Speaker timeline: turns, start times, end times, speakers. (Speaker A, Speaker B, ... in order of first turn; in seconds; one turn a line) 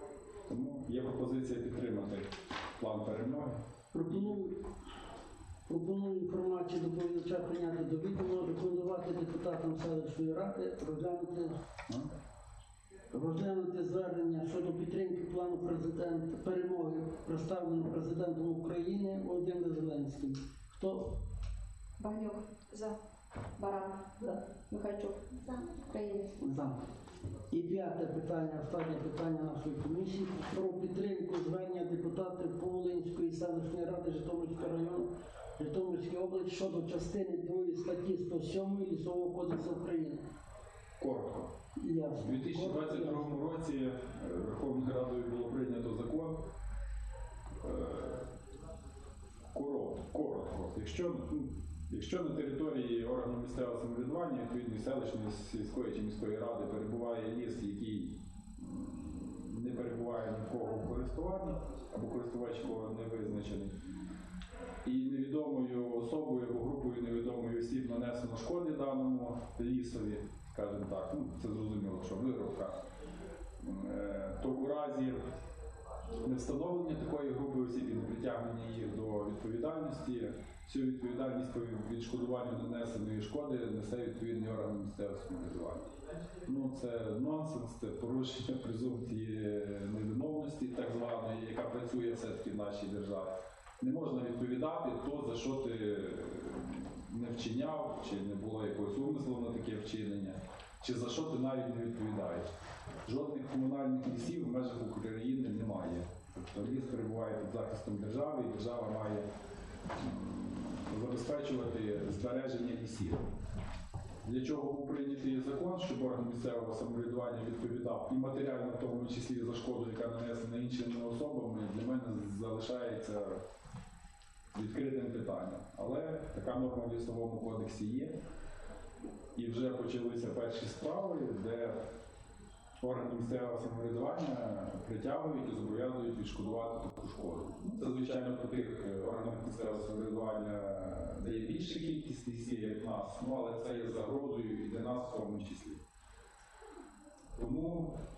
Speaker A: 0.5-3.6
Speaker B: 3.9-4.6
Speaker B: 5.7-11.6
Speaker B: 13.1-21.1
Speaker C: 22.0-22.9
Speaker C: 23.6-26.3
Speaker B: 26.4-26.8
Speaker B: 27.5-40.2
Speaker A: 41.0-41.5
Speaker B: 41.8-43.3
Speaker A: 42.1-46.4
Speaker A: 47.6-48.2
Speaker A: 49.5-63.8
Speaker A: 64.8-72.8
Speaker A: 73.6-75.2
Speaker A: 76.2-102.5
Speaker A: 103.0-109.3
Speaker A: 109.9-113.2
Speaker A: 114.2-123.4
Speaker A: 124.5-128.1
Speaker A: 129.3-131.8
Speaker A: 132.8-145.8
Speaker A: 147.3-148.0